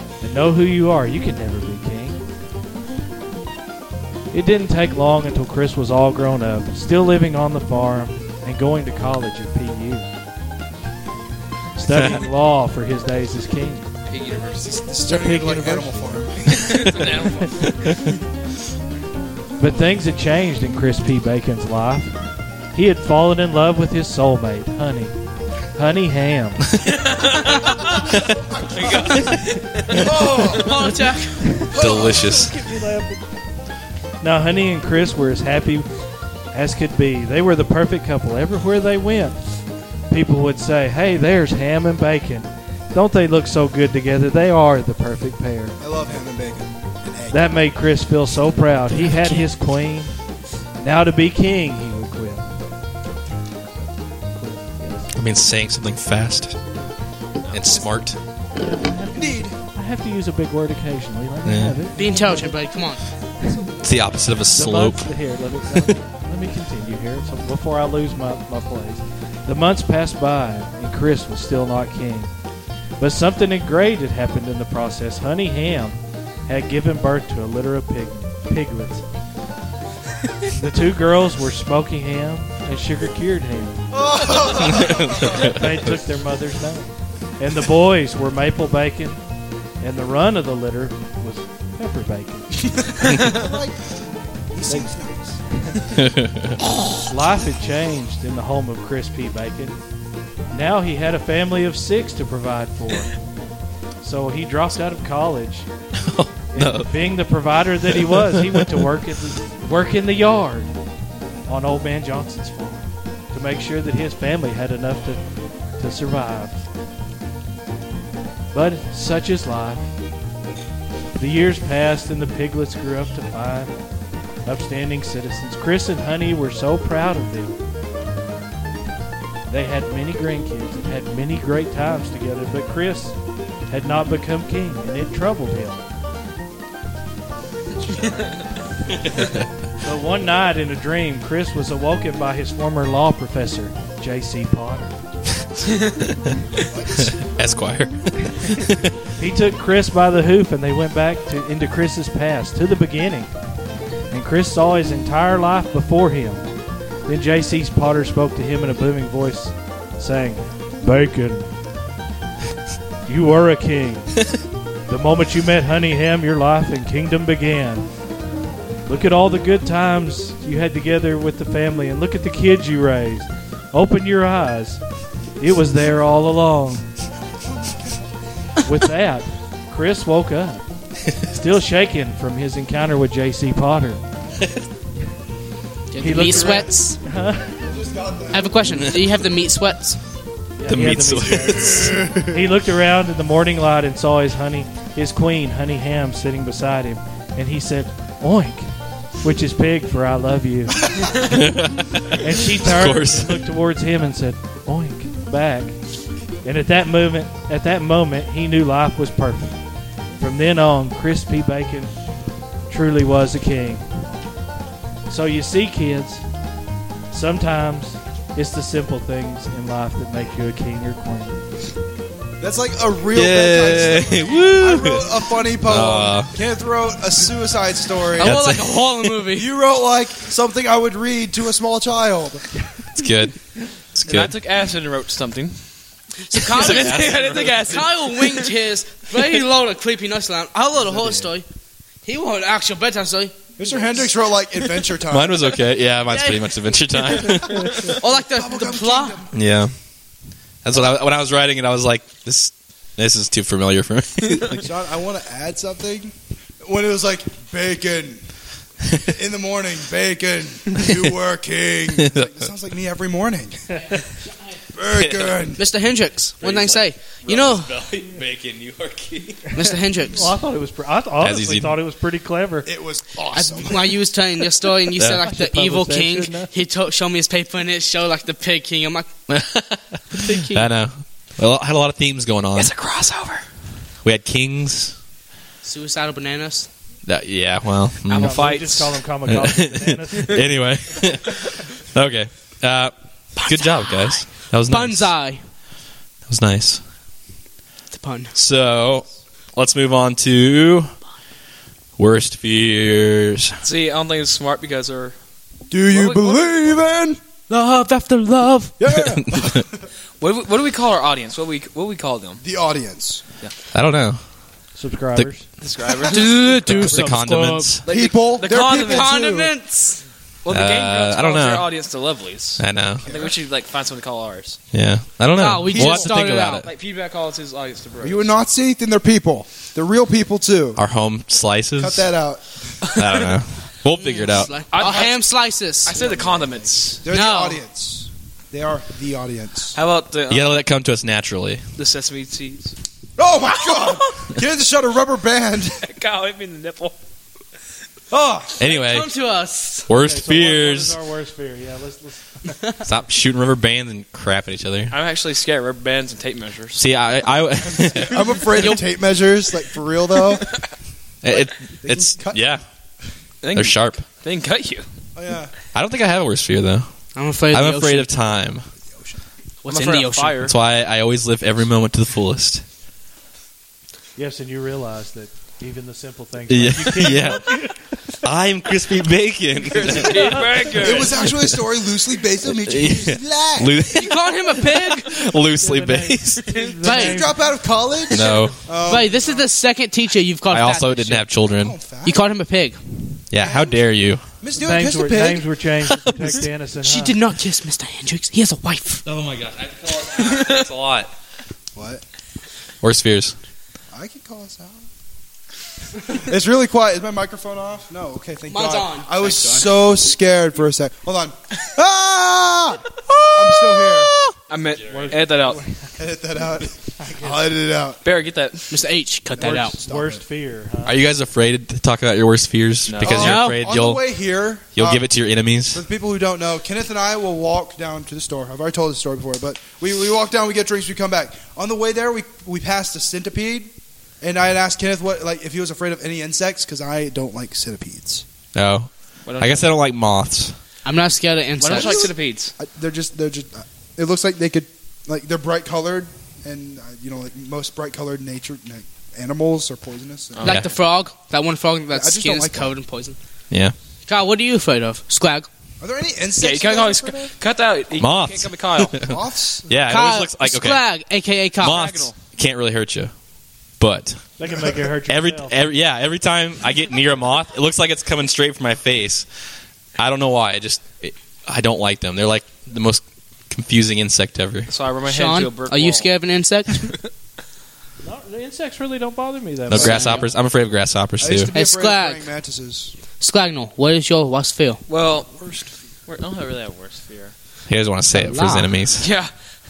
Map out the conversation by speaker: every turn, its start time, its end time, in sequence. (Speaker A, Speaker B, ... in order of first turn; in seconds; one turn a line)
Speaker A: 0.2-2.2
Speaker A: 4.3-10.1
Speaker A: 11.8-13.9
Speaker B: 11.9-12.2
Speaker C: 14.1-14.8
Speaker D: 14.8-17.2
Speaker A: 15.0-15.9
Speaker C: 16.5-17.7
Speaker A: 19.6-22.2
Speaker A: 22.7-25.1
Speaker A: 25.7-26.7
Speaker C: 26.9-27.8
Speaker D: 28.6-29.1
Speaker C: 28.7-30.1
Speaker D: 29.9-31.0
Speaker E: 30.5-31.6
Speaker A: 31.4-33.3
Speaker D: 31.7-32.5
Speaker B: 31.7-32.5
Speaker A: 34.2-35.9
Speaker A: 36.5-39.4
Speaker A: 40.1-45.8
Speaker D: 45.8-47.6
Speaker A: 47.3-50.1
Speaker A: 50.8-52.6
Speaker A: 54.3-55.1
Speaker B: 55.1-56.6
Speaker B: 57.5-58.2
Speaker A: 58.5-62.6
Speaker D: 59.1-59.5
Speaker B: 61.4-61.8
Speaker E: 62.0-63.0
Speaker A: 63.4-63.7
Speaker B: 63.8-65.1
Speaker A: 64.5-72.3
Speaker A: 73.0-79.0
Speaker A: 80.5-89.2
Speaker D: 83.9-85.4
Speaker B: 84.7-85.5
Speaker A: 89.8-93.2
Speaker D: 92.8-94.0
Speaker D: 94.5-95.4
Speaker B: 96.0-96.6
Speaker A: 97.0-99.8
Speaker A: 100.5-103.1
Speaker A: 104.0-105.7
Speaker B: 106.0-106.9
Speaker A: 106.5-110.7
Speaker B: 107.9-108.8
Speaker A: 111.5-115.2
Speaker A: 115.8-116.6
Speaker A: 118.5-119.8
Speaker A: 121.2-123.8
Speaker A: 124.4-127.6
Speaker A: 129.5-135.9
Speaker C: 137.9-138.3
Speaker B: 139.1-139.4
Speaker A: 139.8-145.0
Speaker D: 146.6-147.1
Speaker B: 146.9-148.9
Speaker A: 149.2-153.3
Speaker A: 154.1-156.5
Speaker A: 157.1-161.5
Speaker A: 163.1-164.2
Speaker A: 164.9-167.9
Speaker A: 168.8-174.8
Speaker A: 175.4-176.8
Speaker A: 178.7-184.0
Speaker E: 185.9-187.0
Speaker A: 186.0-187.5
Speaker D: 187.6-188.9
Speaker E: 188.3-190.0
Speaker A: 190.6-198.7
Speaker B: 190.7-192.1
Speaker D: 191.5-192.3
Speaker A: 199.2-201.1
Speaker B: 201.2-203.4
Speaker A: 202.1-205.8
Speaker A: 206.4-209.6
Speaker A: 210.2-211.9
Speaker A: 212.7-213.8
Speaker A: 215.1-216.2
Speaker A: 217.1-221.4
Speaker D: 222.4-228.4
Speaker B: 223.1-225.0
Speaker B: 225.6-226.3
Speaker E: 228.2-229.5
Speaker B: 228.2-229.1
Speaker D: 229.3-232.5
Speaker B: 232.9-233.4
Speaker B: 233.9-234.3
Speaker C: 234.1-235.5
Speaker E: 236.3-241.4
Speaker C: 236.4-238.5
Speaker B: 236.5-237.7
Speaker D: 240.7-241.3
Speaker E: 242.0-243.4
Speaker D: 243.6-245.5
Speaker B: 245.1-248.0
Speaker E: 246.1-249.2
Speaker D: 247.8-249.3
Speaker B: 249.3-249.7
Speaker B: 250.6-254.6
Speaker D: 254.5-258.2
Speaker D: 258.9-263.9
Speaker B: 262.0-262.3
Speaker D: 264.7-265.6
Speaker B: 264.9-265.3
Speaker E: 265.6-267.7
Speaker B: 266.4-269.8
Speaker E: 269.5-270.3
Speaker A: 270.1-272.7
Speaker B: 271.2-271.7
Speaker D: 272.6-274.0
Speaker E: 273.3-279.1
Speaker B: 274.9-275.3
Speaker A: 275.2-276.5
Speaker B: 279.3-282.7
Speaker E: 280.1-280.7
Speaker C: 282.6-283.4
Speaker B: 284.0-285.0
Speaker E: 285.6-286.7
Speaker B: 287.1-288.5
Speaker C: 288.1-289.0
Speaker A: 288.1-290.4
Speaker B: 289.3-295.1
Speaker E: 293.4-295.4
Speaker B: 296.3-296.8
Speaker E: 297.9-298.3
Speaker B: 298.3-300.9
Speaker B: 302.0-303.6
Speaker C: 303.6-305.1
Speaker D: 305.7-307.2
Speaker C: 305.9-306.7
Speaker E: 307.5-308.8
Speaker D: 308.8-309.7
Speaker B: 309.0-309.6
Speaker C: 310.2-312.4
Speaker D: 312.4-313.2
Speaker B: 313.7-314.2
Speaker A: 314.8-315.4
Speaker C: 315.6-316.4
Speaker E: 316.0-317.7
Speaker B: 316.6-317.8
Speaker A: 316.6-317.2
Speaker C: 317.8-319.1
Speaker D: 317.9-319.5
Speaker E: 318.6-320.0
Speaker C: 320.4-324.6
Speaker B: 320.5-321.7
Speaker B: 322.6-323.0
Speaker D: 323.0-323.3
Speaker B: 324.7-326.7
Speaker E: 325.3-326.6
Speaker C: 325.7-326.1
Speaker C: 326.6-328.3
Speaker D: 328.0-330.8
Speaker B: 330.8-332.1
Speaker D: 331.8-332.8
Speaker B: 332.9-334.6
Speaker E: 333.9-335.9
Speaker C: 334.7-335.3
Speaker C: 335.8-337.0
Speaker D: 335.9-339.8
Speaker E: 337.1-337.6
Speaker C: 339.7-340.6
Speaker B: 340.3-341.6
Speaker C: 341.8-342.7
Speaker D: 343.2-345.8
Speaker C: 345.8-346.9
Speaker D: 348.1-348.6
Speaker B: 348.6-349.1
Speaker E: 348.6-349.9
Speaker B: 349.9-351.0
Speaker A: 350.0-352.5
Speaker B: 352.8-354.9
Speaker C: 354.9-356.8
Speaker B: 356.8-358.4
Speaker D: 357.6-360.5
Speaker B: 361.2-362.6
Speaker D: 361.3-362.5
Speaker C: 363.4-364.8
Speaker B: 363.5-364.0
Speaker D: 365.1-365.5
Speaker B: 365.7-366.9
Speaker E: 367.1-368.1
Speaker B: 367.5-368.6
Speaker D: 368.9-369.2
Speaker E: 369.6-370.5
Speaker C: 369.7-370.5
Speaker B: 370.4-372.6
Speaker A: 374.1-377.8
Speaker B: 376.5-381.6
Speaker C: 379.7-381.3
Speaker A: 379.8-380.7
Speaker D: 380.8-383.8
Speaker B: 382.5-386.6
Speaker E: 383.9-385.2
Speaker A: 385.6-387.4
Speaker E: 386.8-387.2
Speaker D: 386.8-389.5
Speaker B: 388.1-388.7
Speaker E: 388.1-391.3
Speaker B: 390.5-391.7
Speaker D: 391.5-392.2
Speaker E: 392.0-392.8
Speaker B: 393.3-394.2
Speaker D: 393.3-393.8
Speaker D: 394.4-395.5
Speaker A: 394.6-397.2
Speaker B: 396.0-396.4
Speaker E: 396.8-399.0
Speaker B: 399.0-401.1
Speaker C: 400.2-400.6
Speaker D: 401.7-402.0
Speaker B: 402.8-403.3
Speaker D: 403.9-404.9
Speaker D: 406.1-414.1
Speaker E: 408.5-409.7
Speaker C: 414.5-415.6
Speaker A: 414.9-415.8
Speaker D: 415.9-418.0
Speaker A: 417.0-417.4
Speaker C: 418.0-418.7
Speaker E: 418.7-419.7
Speaker D: 419.4-420.2
Speaker A: 419.4-421.0
Speaker B: 420.8-424.0
Speaker C: 422.9-423.4
Speaker D: 423.0-425.1
Speaker E: 423.1-423.6
Speaker B: 424.7-425.8
Speaker D: 425.7-438.2
Speaker B: 438.5-440.6
Speaker C: 439.2-439.7
Speaker E: 440.8-442.1
Speaker C: 441.6-442.5
Speaker D: 441.7-450.5
Speaker C: 450.3-450.6
Speaker E: 450.4-453.2
Speaker B: 450.4-450.7
Speaker D: 451.9-452.7
Speaker E: 454.1-455.5
Speaker D: 455.8-457.3
Speaker C: 456.4-459.0
Speaker B: 458.0-459.1
Speaker D: 458.9-459.9
Speaker B: 459.7-460.8
Speaker E: 459.9-461.9
Speaker B: 461.6-463.1
Speaker C: 461.6-462.2
Speaker B: 463.8-464.2
Speaker A: 464.4-465.5
Speaker B: 465.1-469.3
Speaker B: 470.0-474.7
Speaker C: 474.7-476.1
Speaker E: 475.0-477.0
Speaker A: 478.0-480.2
Speaker B: 479.7-481.5
Speaker E: 479.7-480.3
Speaker D: 481.2-482.9
Speaker E: 481.5-482.2
Speaker E: 483.2-484.8
Speaker C: 484.9-485.3
Speaker D: 485.3-485.7
Speaker C: 486.1-487.3
Speaker B: 487.7-489.1
Speaker E: 488.1-488.7
Speaker C: 489.0-489.3